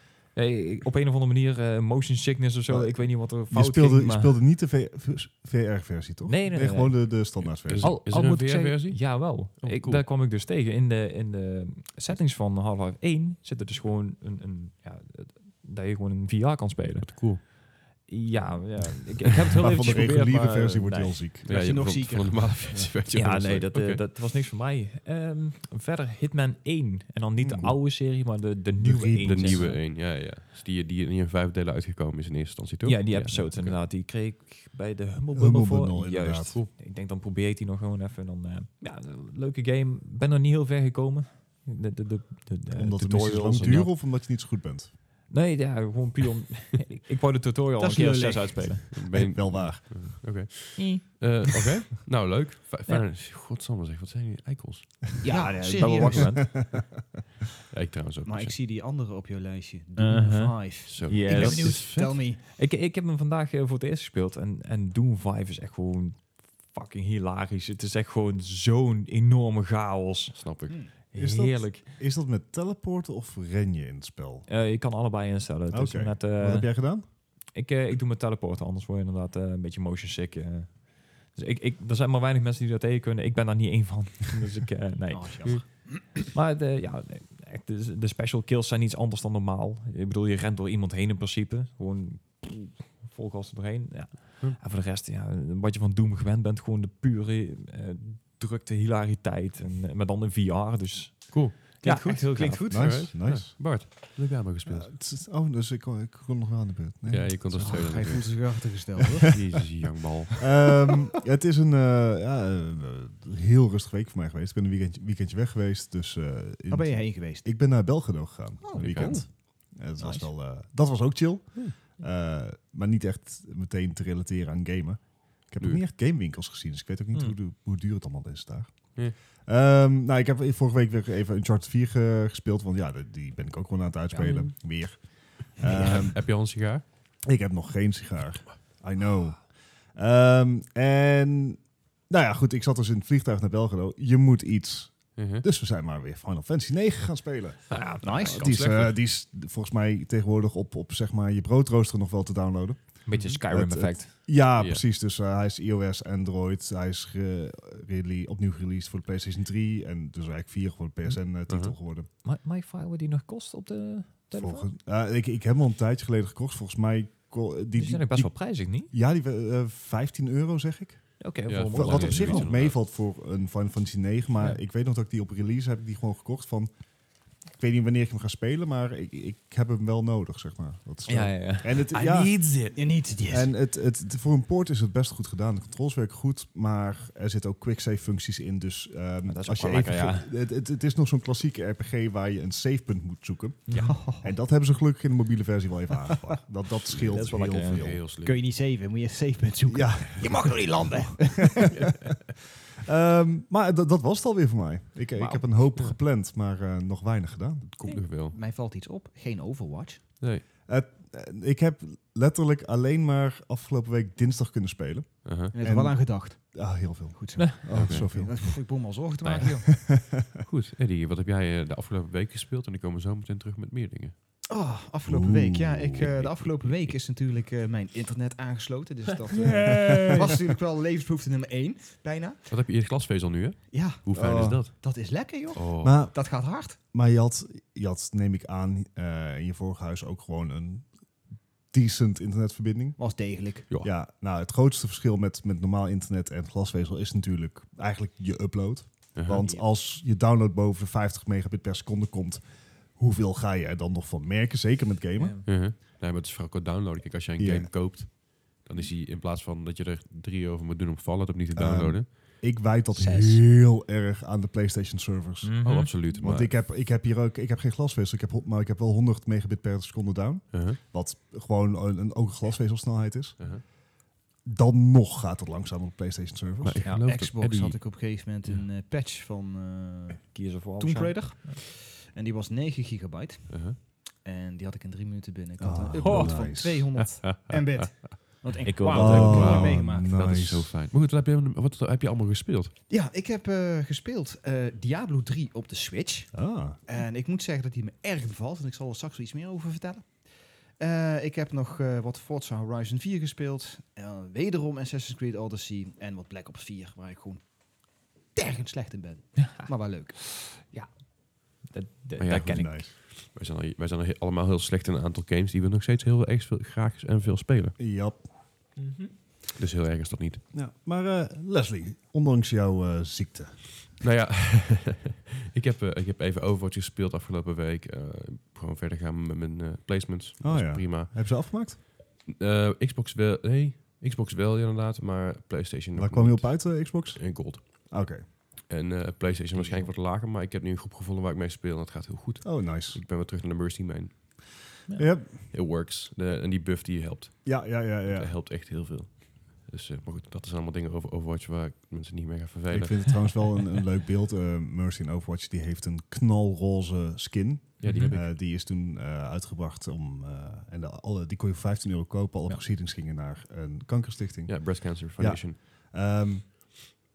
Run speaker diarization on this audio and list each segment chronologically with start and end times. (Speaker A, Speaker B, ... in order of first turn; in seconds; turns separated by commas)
Speaker A: 0.3-4.3, Speaker B: 2.7-7.9, Speaker A: 6.2-21.2, Speaker C: 7.4-10.0, Speaker C: 17.0-17.4, Speaker B: 19.6-21.5, Speaker D: 21.4-22.6, Speaker C: 21.4-24.0, Speaker A: 23.1-29.8, Speaker B: 27.4-27.9, Speaker B: 28.8-29.7, Speaker C: 29.2-33.8, Speaker A: 32.8-43.9, Speaker B: 35.3-36.6, Speaker B: 42.8-44.9, Speaker A: 45.3-48.9, Speaker D: 47.8-48.7, Speaker C: 48.9-55.2, Speaker B: 49.1-50.2, Speaker A: 50.8-51.6, Speaker D: 55.2-56.4, Speaker A: 55.3-56.5, Speaker B: 55.3-56.8, Speaker C: 57.7-58.6, Speaker D: 58.3-62.4, Speaker A: 60.0-70.4, Speaker C: 60.9-62.2, Speaker C: 70.3-70.8, Speaker D: 70.7-70.9, Speaker A: 71.0-71.9, Speaker B: 71.2-74.5, Speaker A: 74.5-103.1, Speaker B: 75.7-77.1, Speaker D: 85.1-86.2, Speaker C: 101.3-104.9, Speaker D: 101.9-102.9, Speaker B: 102.7-103.8, Speaker B: 104.7-108.2, Speaker C: 107.1-108.7, Speaker D: 107.5-109.3, Speaker C: 109.3-110.5, Speaker B: 110.4-136.3, Speaker D: 116.7-117.5, Speaker D: 118.6-120.3, Speaker C: 118.8-119.2, Speaker A: 134.1-134.5, Speaker C: 135.6-136.8, Speaker B: 137.2-162.1, Speaker C: 145.2-145.4, Speaker A: 147.7-148.2, Speaker C: 147.7-149.0, Speaker D: 148.0-148.4, Speaker A: 153.1-154.1, Speaker C: 153.1-153.4, Speaker C: 161.5-161.8, Speaker A: 162.2-164.7, Speaker B: 164.4-176.7, Speaker A: 167.8-168.9, Speaker A: 171.2-172.5, Speaker C: 171.5-172.8, Speaker B: 177.4-182.5, Speaker A: 181.1-182.7, Speaker D: 182.7-183.5, Speaker B: 183.3-198.0, Speaker A: 189.3-190.3, Speaker A: 193.7-194.0, Speaker D: 193.7-194.3, Speaker C: 196.9-198.4, Speaker A: 197.1-197.9, Speaker D: 198.2-201.7, Speaker B: 199.7-201.9, Speaker B: 202.8-207.7, Speaker C: 207.7-208.4, Speaker D: 208.3-210.0, Speaker B: 210.7-218.5, Speaker C: 215.2-215.5, Speaker D: 215.5-216.6, Speaker D: 217.1-219.7, Speaker C: 217.7-218.1, Speaker A: 219.2-219.5, Speaker B: 219.8-220.2, Speaker C: 220.4-224.1, Speaker D: 224.5-232.5, Speaker B: 225.1-226.2, Speaker C: 226.0-227.0, Speaker A: 229.3-230.3, Speaker B: 229.4-230.3, Speaker C: 232.5-234.9, Speaker D: 233.7-236.8, Speaker B: 234.1-234.7, Speaker C: 235.5-235.9, Speaker B: 235.8-236.2, Speaker B: 236.9-241.1, Speaker B: 241.7-243.0, Speaker D: 243.0-243.7, Speaker B: 243.8-255.3, Speaker C: 249.2-249.4, Speaker A: 255.2-255.5, Speaker C: 255.4-262.1, Speaker B: 257.4-257.7, Speaker B: 261.5-273.7, Speaker D: 262.9-263.4, Speaker A: 265.4-266.0, Speaker C: 265.6-266.5, Speaker C: 270.5-270.8, Speaker C: 273.4-273.6, Speaker B: 274.4-276.8, Speaker C: 276.6-277.8, Speaker D: 277.0-290.1, Speaker A: 280.3-281.6, Speaker C: 283.5-283.8, Speaker B: 285.6-286.9, Speaker A: 286.0-286.5, Speaker C: 287.0-288.1, Speaker A: 288.6-289.6, Speaker B: 288.9-290.8, Speaker C: 289.1-292.7, Speaker D: 292.9-300.3, Speaker B: 296.3-296.8, Speaker D: 300.8-307.4, Speaker D: 308.3-310.4, Speaker A: 311.6-312.8, Speaker C: 312.2-317.8, Speaker B: 312.5-312.9, Speaker B: 317.8-318.2, Speaker A: 318.8-319.1, Speaker C: 319.6-320.4, Speaker B: 320.5-323.6, Speaker C: 324.0-331.1, Speaker B: 330.4-331.8, Speaker C: 332.2-337.9, Speaker B: 336.0-338.2, Speaker C: 338.7-344.6, Speaker B: 342.4-343.0, Speaker B: 345.0-345.4, Speaker C: 345.3-353.3, Speaker B: 347.4-348.3, Speaker B: 352.7-366.5, Speaker C: 357.8-358.3, Speaker A: 357.8-358.1, Speaker C: 364.5-365.6